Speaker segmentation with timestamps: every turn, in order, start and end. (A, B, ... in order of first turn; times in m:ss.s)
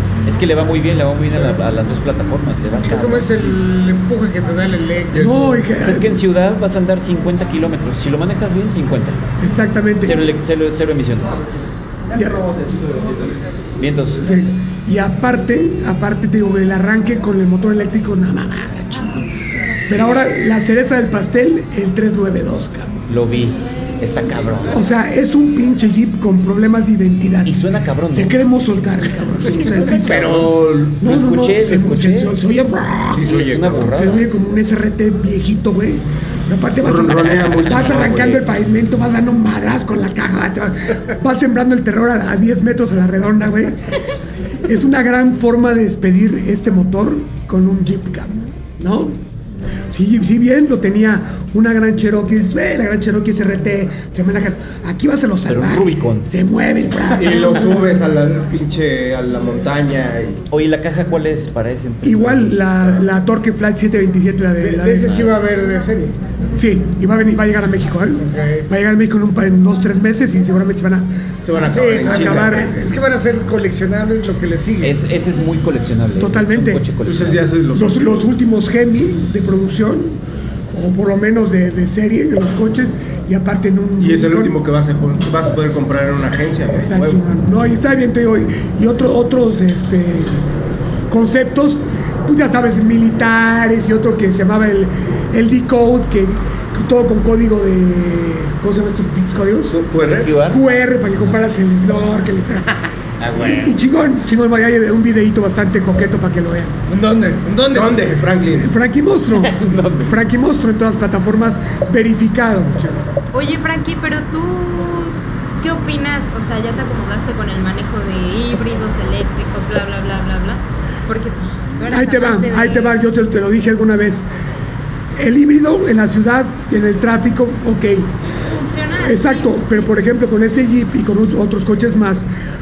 0:00.2-0:03.6 A
0:02.8-0:05.6 B
0:05.2-0:06.2 C
0:05.8-0:09.2 A
0:09.4-0:10.4 C
0:10.0-0:11.4 A
0:12.1-0:12.5 C
0:13.8-0:14.2 A
0:14.2-0:19.2 C
0:19.8-0:20.3 A
0:19.9-0:23.0 C
0:23.1-0:24.8 A
0:24.7-0:43.8 C
0:27.4-0:28.4 A
0:29.4-0:32.4 A
0:29.7-0:31.0 D
0:33.1-0:34.1 D
0:33.1-0:34.3 A
0:36.8-0:38.4 D
0:37.4-0:38.2 A
0:44.6-0:49.2 C
0:49.9-0:58.0 C
0:55.5-0:56.3 A
0:57.1-1:00.4 D
1:00.5-1:03.1 A
1:02.0-1:05.3 C
1:04.6-1:06.2 B
1:06.6-1:12.9 C
1:08.2-1:08.7 B
1:11.4-1:12.7 D
1:11.7-1:15.0 B
1:14.8-1:17.5 A
1:16.2-1:16.9 C
1:17.0-1:18.3 D
1:17.7-1:20.2 C
1:20.7-1:24.6 C
1:24.0-1:26.9 D
1:26.7-1:30.4 C
1:26.9-1:27.2 A
1:31.1-1:39.8 C
1:39.7-1:40.3 D
1:40.0-1:40.6 A
1:40.4-1:42.7 C
1:43.2-1:43.8 A
1:43.4-1:46.8 C
1:46.9-1:48.0 B
1:47.7-1:48.7 D
1:48.5-1:53.1 C
1:49.3-1:50.2 A
1:53.3-2:03.0 E
2:01.9-2:04.3 C
2:05.2-2:08.1 C
2:08.4-2:09.9 E
2:09.0-2:12.3 C